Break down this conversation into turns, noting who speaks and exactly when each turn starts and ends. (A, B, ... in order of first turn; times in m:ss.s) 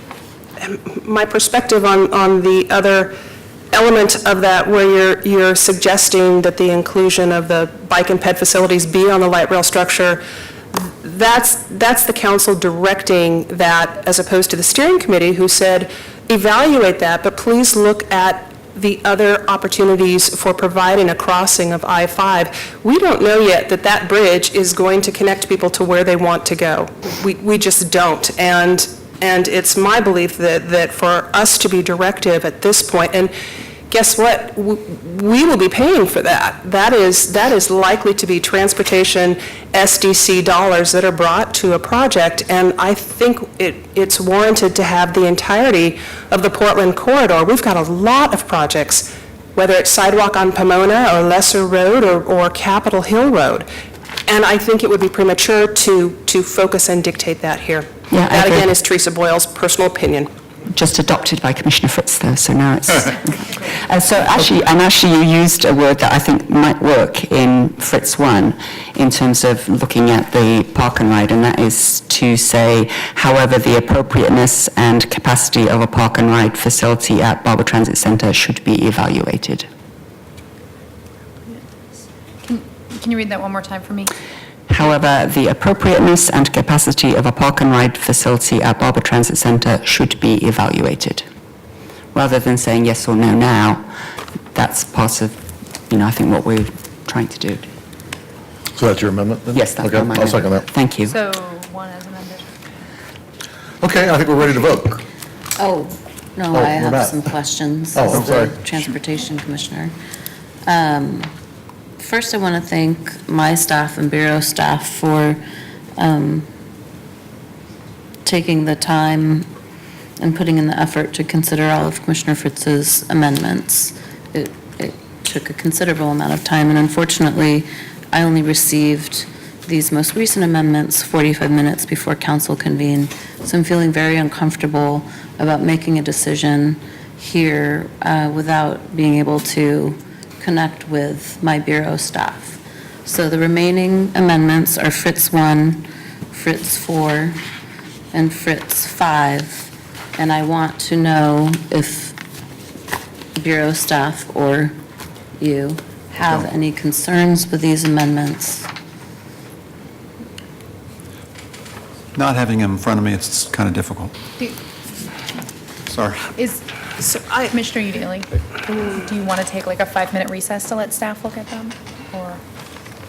0:00.6-0:03.1 A
0:03.7-0:33.3 A
0:33.9-0:53.7 A
0:54.2-1:00.3 A
0:58.1-0:58.7 B
1:00.7-1:19.7 B
1:22.4-1:24.1 C
1:24.7-1:31.2 B
1:32.1-1:33.9 B
1:34.5-1:37.7 B
1:38.7-1:40.6 D
1:39.5-1:41.1 B
1:41.0-1:42.5 C
1:43.8-1:45.0 D
1:45.6-1:50.0 E
1:46.5-1:47.2 D
1:47.9-1:48.5 D
1:50.6-1:51.3 E
1:52.0-1:55.4 E
1:56.0-1:56.5 E
1:58.2-1:59.5 E
2:00.2-2:27.4 E
2:28.1-2:32.2 E
2:33.4-2:34.8 E
2:35.4-2:38.7 E
2:42.1-2:44.1 F
2:45.9-2:46.3 F
2:46.3-2:46.6 C
2:47.0-2:47.6 A
2:47.5-2:52.4 C